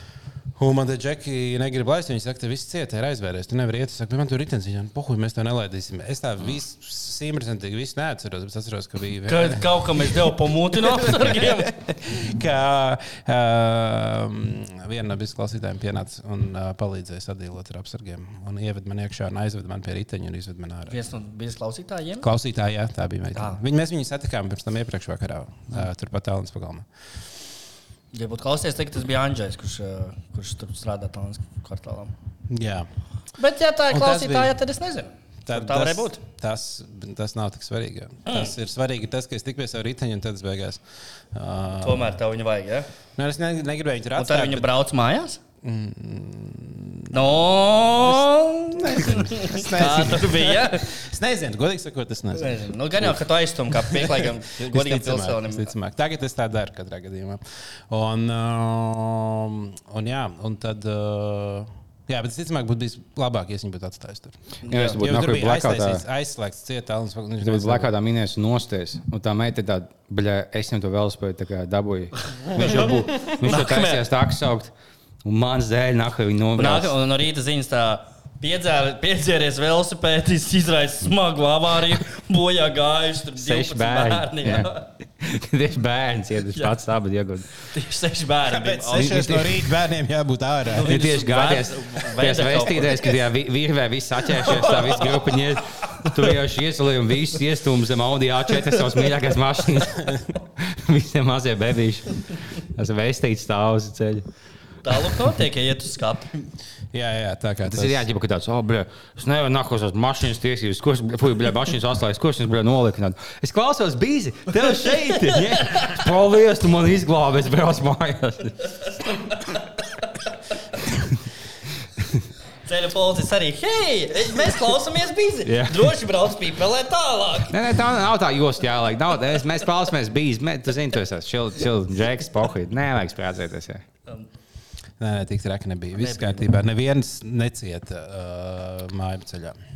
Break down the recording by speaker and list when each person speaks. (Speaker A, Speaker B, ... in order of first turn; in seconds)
Speaker A: 0.6-21.0, 22.2-26.9, 32.5-32.9, 33.9-34.6, 35.5-40.8, 41.3-42.2, 43.2-44.7, 45.6-67.9, 88.5-90.9, 106.9-108.1, 135.0-139.6
Speaker B: 9.3-11.7, 20.9-22.3, 28.1-32.1, 33.4-36.2, 38.3-38.5, 41.8-42.9, 44.2-45.4, 47.1-50.9, 52.3-55.7, 64.7-65.0, 72.5-74.0, 76.6-84.9, 87.7-89.4, 90.7-93.2, 94.4-95.2, 96.0-96.3, 98.7-99.0, 104.8-106.4, 114.7-116.0, 118.8-120.1, 122.7-127.6, 135.9-136.5
Speaker C: 64.7-66.0, 67.4-74.7, 75.2-77.0, 83.4-87.5, 89.0-89.7, 90.8-104.2, 107.7-118.6, 125.5-126.0, 127.5-133.8